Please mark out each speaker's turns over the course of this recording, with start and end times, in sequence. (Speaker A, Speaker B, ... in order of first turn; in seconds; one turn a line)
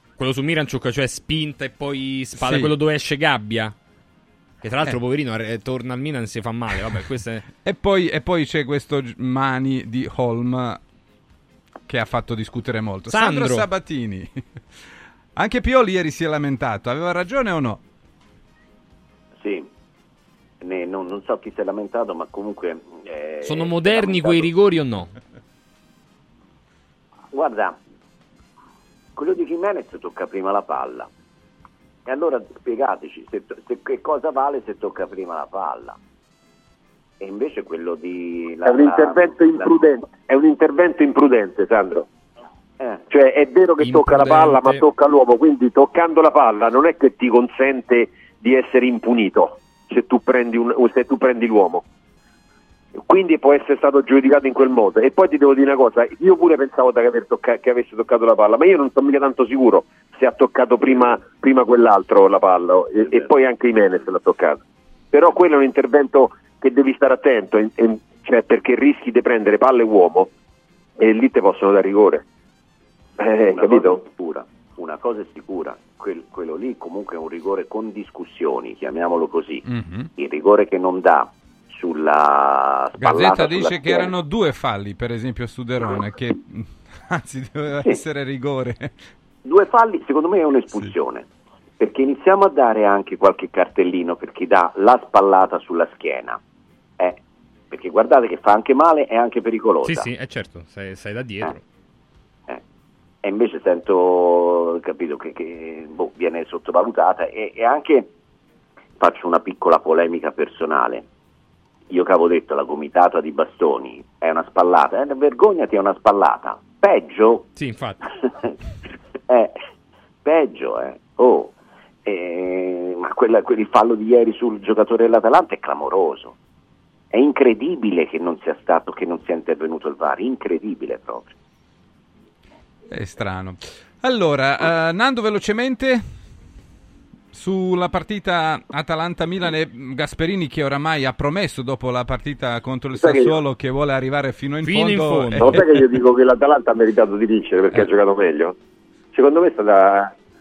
Speaker A: 0.2-3.7
Speaker B: 2.4-2.7
Speaker A: 4.6-7.5
Speaker B: 7.6-10.8
Speaker B: 11.9-14.3
Speaker A: 13.1-13.7
Speaker B: 15.4-17.8
Speaker C: 19.4-19.7
Speaker C: 20.6-24.5
Speaker A: 23.4-25.1
Speaker C: 27.3-27.8
Speaker C: 29.1-31.1
Speaker C: 32.0-36.0
Speaker C: 37.2-39.9
Speaker D: 38.6-42.0
Speaker D: 43.1-51.8
Speaker A: 43.8-44.8
Speaker D: 53.0-64.6
Speaker D: 65.1-70.3
Speaker D: 71.0-72.2
Speaker D: 73.2-74.0
Speaker C: 73.5-79.7
Speaker B: 79.7-80.1
Speaker C: 80.2-84.1
Speaker B: 83.0-88.9
Speaker C: 89.5-91.3
Speaker C: 91.8-96.4
Speaker C: 97.0-100.1
Speaker A: 99.8-101.6
Speaker C: 103.2-108.1
Speaker C: 109.0-111.0
Speaker C: 111.9-117.5
Speaker A: 117.5-118.0
Speaker C: 119.3-119.6
Speaker C: 120.2-121.5
Speaker C: 122.0-126.4
Speaker C: 127.1-131.3
Speaker B: 132.9-136.1
Speaker B: 137.3-145.8
Speaker D: 143.0-143.3
Speaker A: 144.6-145.6
Speaker D: 145.4-148.6
Speaker D: 149.1-150.1